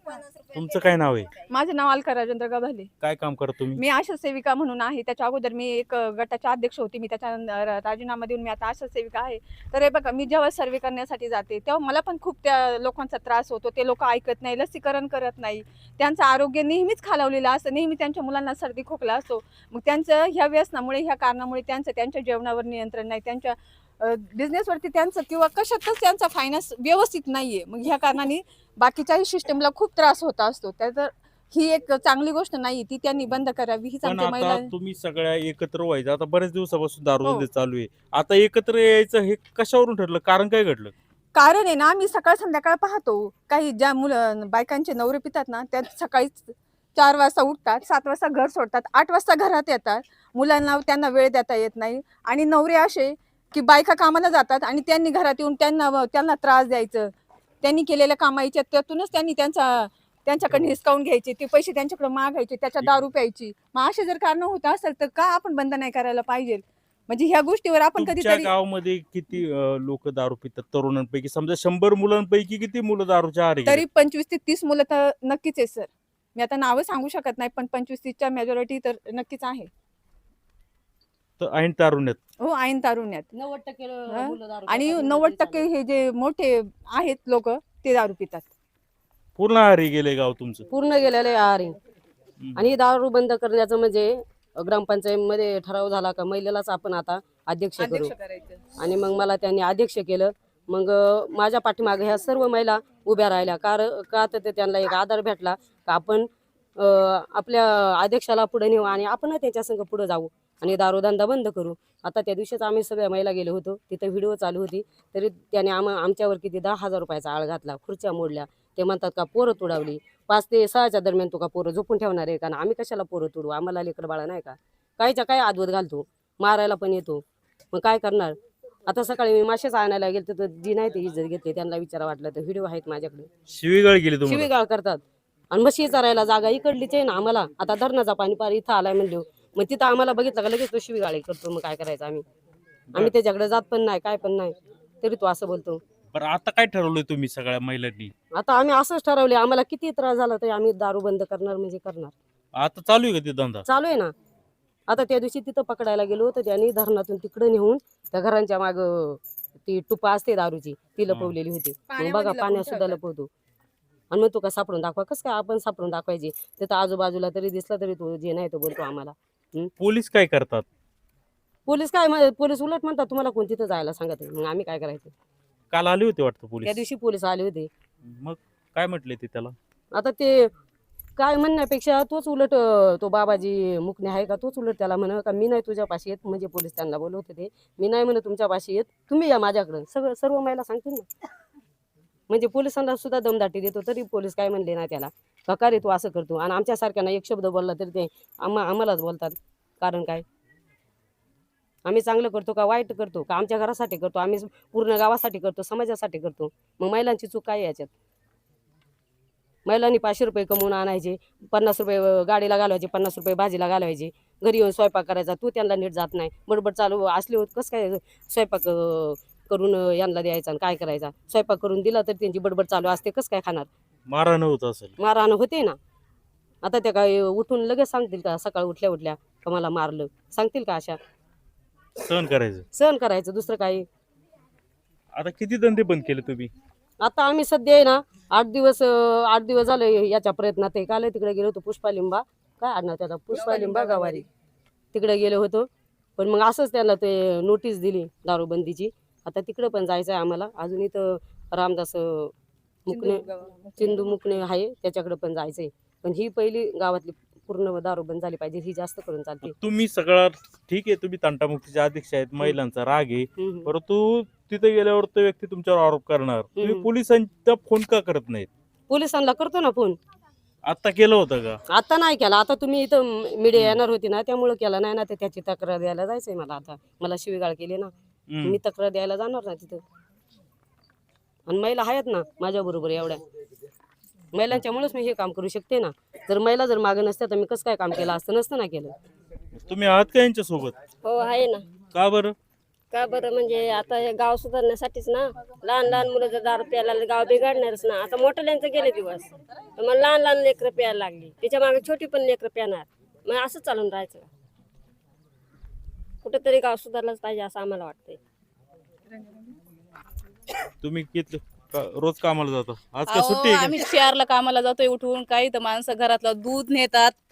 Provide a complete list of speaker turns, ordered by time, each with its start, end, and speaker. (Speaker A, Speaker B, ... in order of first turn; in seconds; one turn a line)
Speaker A: 0.5-1.3
Speaker B: 1.5-2.9
Speaker A: 3.0-3.8
Speaker B: 3.8-34.7
Speaker A: 34.0-40.9
Speaker B: 41.4-57.1
Speaker B: 57.6-68.5
Speaker A: 68.0-73.8
Speaker B: 73.7-79.7
Speaker A: 81.4-82.2
Speaker B: 82.4-83.2
Speaker C: 83.3-85.7
Speaker B: 84.1-88.5
Speaker A: 89.4-90.7
Speaker C: 90.7-91.8
Speaker A: 92.4-92.7
Speaker C: 92.6-98.1
Speaker B: 97.8-98.6
Speaker C: 98.8-128.3
Speaker C: 128.9-133.3
Speaker A: 133.5-134.5
Speaker C: 134.3-135.0
Speaker C: 135.5-142.2
Speaker C: 142.9-145.8
Speaker A: 146.1-148.1
Speaker C: 148.3-152.1
Speaker A: 152.6-153.7
Speaker C: 153.7-154.1
Speaker C: 154.9-163.3
Speaker A: 161.1-161.3
Speaker B: 162.0-162.8
Speaker C: 164.1-169.7
Speaker A: 169.8-170.7
Speaker C: 171.7-175.1
Speaker A: 175.7-176.8
Speaker C: 176.6-177.7
Speaker A: 178.0-179.5
Speaker C: 179.9-180.5
Speaker C: 181.2-191.1
Speaker C: 192.3-200.2
Speaker C: 201.9-207.9
Speaker C: 209.7-223.7
Speaker A: 224.1-224.9
Speaker C: 225.0-225.8
Speaker C: 226.6-231.0
Speaker A: 232.0-232.7
Speaker C: 232.7-233.9
Speaker A: 235.2-236.5
Speaker C: 237.0-244.2
Speaker C: 244.9-252.3
Speaker C: 252.9-253.3
Speaker B: 252.9-253.7
Speaker C: 253.8-259.5
Speaker A: 259.4-268.5
Speaker C: 263.4-263.7
Speaker C: 266.6-266.9
Speaker C: 268.9-270.0
Speaker A: 270.7-271.6
Speaker C: 271.7-277.9
Speaker A: 273.6-273.8
Speaker A: 278.3-278.6
Speaker C: 278.4-279.8
Speaker C: 281.5-283.2
Speaker C: 284.3-288.9
Speaker A: 289.6-290.8
Speaker D: 291.0-291.7
Speaker A: 291.9-292.4
Speaker D: 292.9-304.3
Speaker D: 306.2-308.2
Speaker A: 310.8-313.7
Speaker E: 313.1-317.1